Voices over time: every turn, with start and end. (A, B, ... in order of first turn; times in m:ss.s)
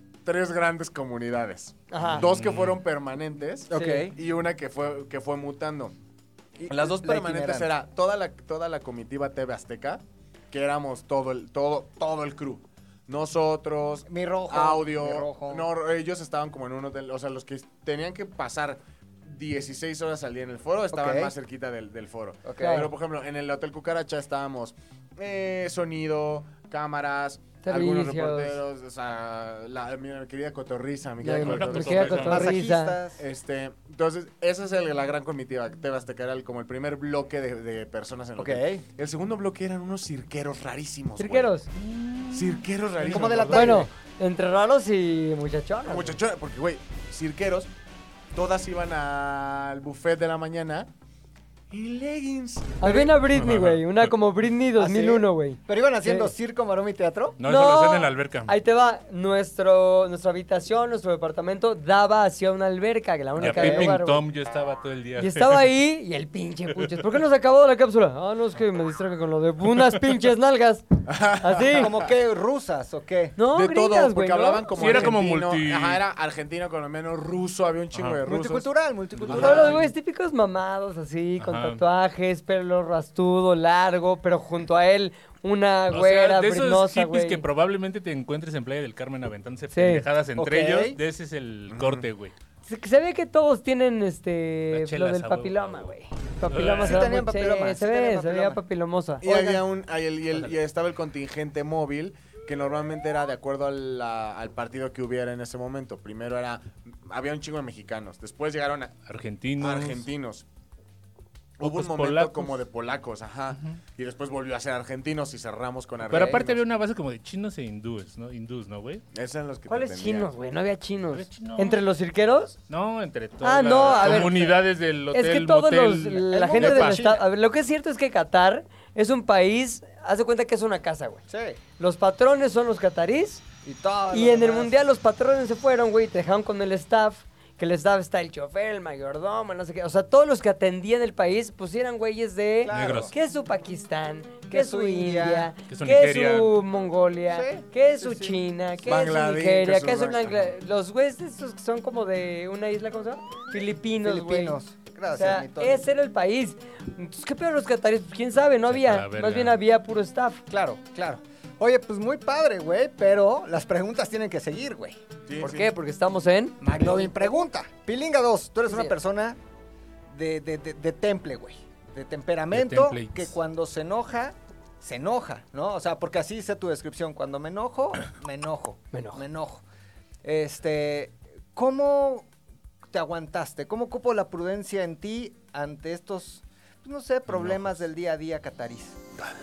0:00.2-0:05.9 A
0:01.9-0:02.2 B
0:02.2-0:02.8 C
0:03.7-0:04.1 D
0:03.7-0:04.0 B
0:06.6-0:07.7 D
0:06.7-0:32.5 A
0:14.1-0:15.7 D
0:20.9-0:21.3 D
0:22.4-0:22.9 D
0:22.6-0:22.9 B
0:27.6-0:28.6 B
0:31.2-0:33.0 B
0:31.3-0:32.5 C
0:32.2-0:33.2 D
0:33.2-0:41.5 A
0:38.4-0:38.8 D
0:41.2-0:41.7 B
0:42.3-0:43.9 A
0:43.0-0:43.9 D
0:43.5-0:46.2 B
0:45.8-0:47.7 A
0:48.3-0:50.9 A
0:51.7-0:52.9 A
0:52.8-0:56.3 B
0:52.8-0:53.1 D
0:53.3-0:54.1 C
0:54.8-0:57.4 D
0:57.4-0:58.5 C
0:57.4-1:04.2 B
1:03.4-1:05.7 C
1:03.4-1:04.0 D
1:05.2-1:10.8 B
1:06.8-1:07.0 C
1:11.1-1:12.1 A
1:11.4-1:11.9 B
1:11.7-1:13.4 D
1:13.4-1:15.1 B
1:13.5-1:18.7 A
1:14.7-1:16.0 C
1:17.9-1:18.2 C
1:18.2-1:19.8 D
1:19.2-1:19.8 A
1:19.3-1:19.8 C
1:19.3-1:27.4 B
1:21.4-1:21.8 C
1:25.9-1:32.3 C
1:29.7-1:30.0 B
1:30.4-1:31.0 D
1:31.7-1:32.0 A
1:32.6-1:39.2 B
1:34.7-1:35.9 C
1:36.5-1:37.1 C
1:36.6-1:38.6 D
1:39.2-1:49.0 A
1:39.2-1:39.6 D
1:49.0-1:50.0 C
1:49.6-1:50.4 A
1:51.6-1:56.6 A
1:51.6-1:52.6 C
1:56.1-1:59.0 C
1:59.1-2:00.3 A
1:59.7-2:02.6 B
2:01.1-2:01.8 C
2:02.7-2:07.0 C
2:03.4-2:04.5 B
2:03.8-2:04.5 D
2:05.1-2:11.2 B
2:06.3-2:07.2 D
2:11.3-2:11.6 D
2:11.8-2:13.4 B
2:13.6-2:14.7 D
2:14.1-2:34.6 B
2:22.6-2:23.1 D
2:22.7-2:23.1 C
2:24.5-2:25.5 D
2:25.7-2:26.5 C
2:27.3-2:28.4 D
2:28.8-2:30.5 A
2:34.0-2:35.8 D
2:35.1-2:40.4 B
2:38.7-2:39.6 C
2:40.5-2:45.0 D
2:45.3-2:45.7 A
2:45.4-2:47.1 B
2:46.6-2:49.4 D
2:48.7-2:48.9 B
2:50.1-2:59.6 D
2:52.5-2:53.3 C
2:58.9-2:59.2 B
3:00.2-3:02.3 D
3:02.9-3:09.0 D